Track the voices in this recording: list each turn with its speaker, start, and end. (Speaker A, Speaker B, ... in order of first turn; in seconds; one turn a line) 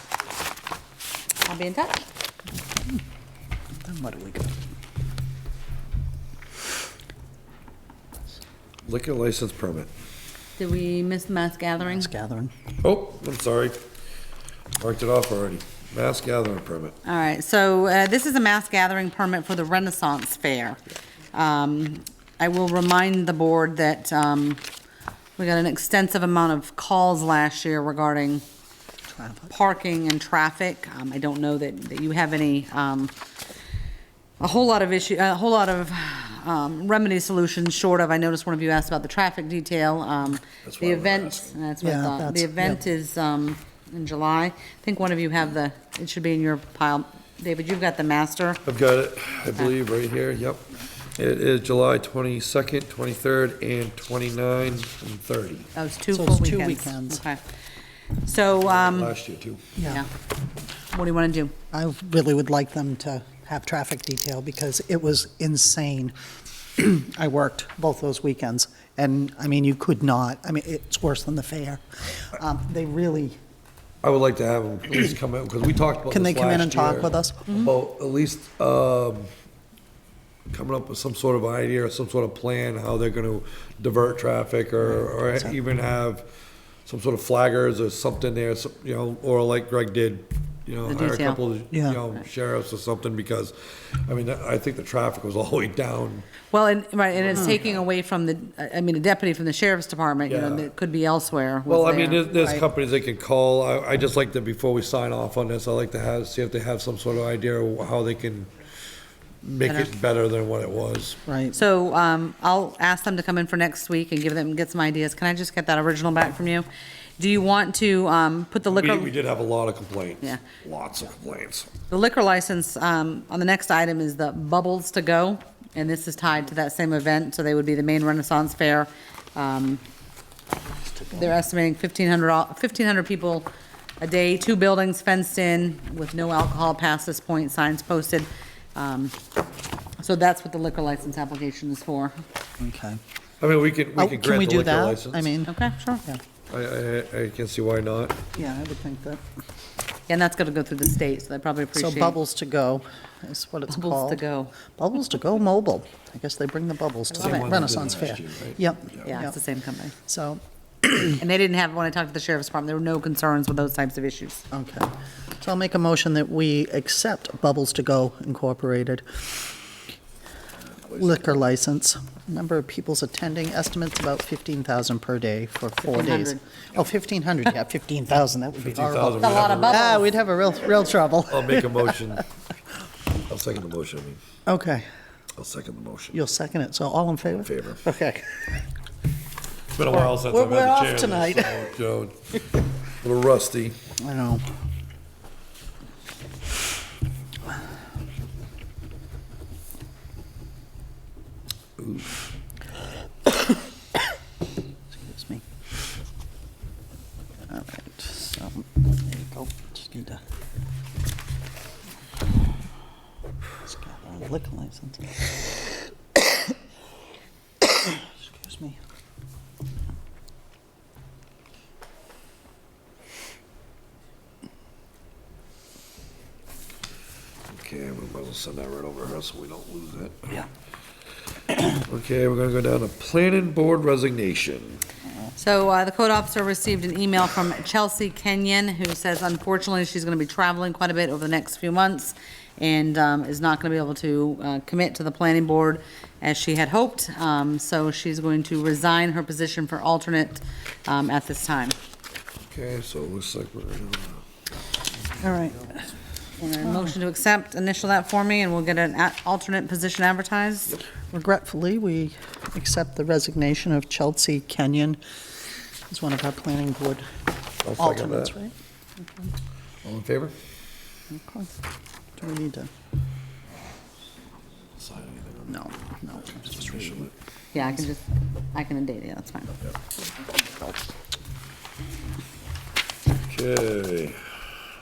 Speaker A: 1.4-2.0
Speaker B: 3.8-4.5
Speaker C: 8.8-9.9
Speaker A: 10.6-12.1
Speaker B: 11.8-12.5
Speaker C: 12.8-13.8
Speaker C: 14.8-16.9
Speaker A: 17.0-20.8
Speaker A: 21.3-24.6
Speaker A: 25.4-28.4
Speaker B: 29.1-29.5
Speaker A: 29.5-33.1
Speaker A: 34.4-48.6
Speaker C: 40.6-41.5
Speaker B: 41.8-42.8
Speaker C: 48.6-55.7
Speaker A: 55.8-57.4
Speaker B: 56.1-57.2
Speaker A: 58.2-59.1
Speaker C: 58.6-59.6
Speaker B: 59.8-60.0
Speaker A: 59.8-60.1
Speaker A: 60.9-61.5
Speaker B: 61.7-66.1
Speaker B: 66.8-73.3
Speaker C: 74.0-79.3
Speaker B: 76.1-77.4
Speaker A: 77.5-77.7
Speaker C: 80.5-86.3
Speaker B: 84.9-85.5
Speaker C: 86.8-96.2
Speaker A: 90.8-91.4
Speaker B: 91.7-92.0
Speaker A: 96.5-102.2
Speaker C: 97.1-97.8
Speaker C: 100.2-100.7
Speaker C: 101.7-108.5
Speaker B: 102.4-102.6
Speaker C: 109.4-111.2
Speaker B: 111.3-111.6
Speaker A: 111.5-116.7
Speaker A: 117.2-119.1
Speaker C: 118.7-121.7
Speaker A: 121.9-129.8
Speaker B: 130.9-131.3
Speaker A: 131.1-133.5
Speaker A: 134.0-139.1
Speaker A: 140.0-142.2
Speaker B: 142.6-143.0
Speaker C: 143.4-145.3
Speaker B: 144.0-145.5
Speaker A: 145.4-146.0
Speaker C: 146.5-148.2
Speaker B: 148.3-149.2
Speaker A: 150.1-152.2
Speaker B: 151.7-159.3
Speaker A: 153.7-154.5
Speaker A: 157.1-157.7
Speaker C: 157.2-159.2
Speaker A: 159.0-159.9
Speaker B: 160.1-161.1
Speaker A: 161.2-164.4
Speaker B: 164.5-169.2
Speaker B: 170.9-181.9
Speaker A: 175.9-176.4
Speaker C: 178.6-179.9
Speaker A: 179.2-180.1
Speaker C: 181.3-182.3
Speaker C: 183.3-184.2
Speaker B: 184.5-184.8
Speaker C: 185.4-186.3
Speaker B: 186.1-188.4
Speaker C: 187.4-187.8
Speaker C: 189.8-192.2
Speaker B: 189.9-191.6
Speaker C: 193.0-193.8
Speaker B: 194.0-194.4
Speaker C: 201.8-202.1
Speaker B: 204.9-205.4
Speaker B: 207.5-210.2
Speaker B: 213.6-215.4
Speaker B: 217.8-218.8
Speaker C: 227.5-230.4
Speaker C: 231.6-234.8
Speaker A: 235.4-251.8
Speaker C: 252.4-254.2
Speaker C: 255.1-255.7
Speaker B: 255.2-255.8
Speaker A: 256.4-260.8
Speaker B: 256.6-256.9
Speaker B: 261.0-265.0
Speaker B: 265.9-267.1
Speaker C: 267.6-268.3
Speaker B: 267.8-268.5
Speaker C: 269.8-270.3
Speaker B: 271.1-271.5
Speaker B: 272.2-272.7
Speaker C: 274.8-277.1
Speaker B: 275.5-277.1
Speaker A: 277.5-279.5
Speaker C: 283.2-284.4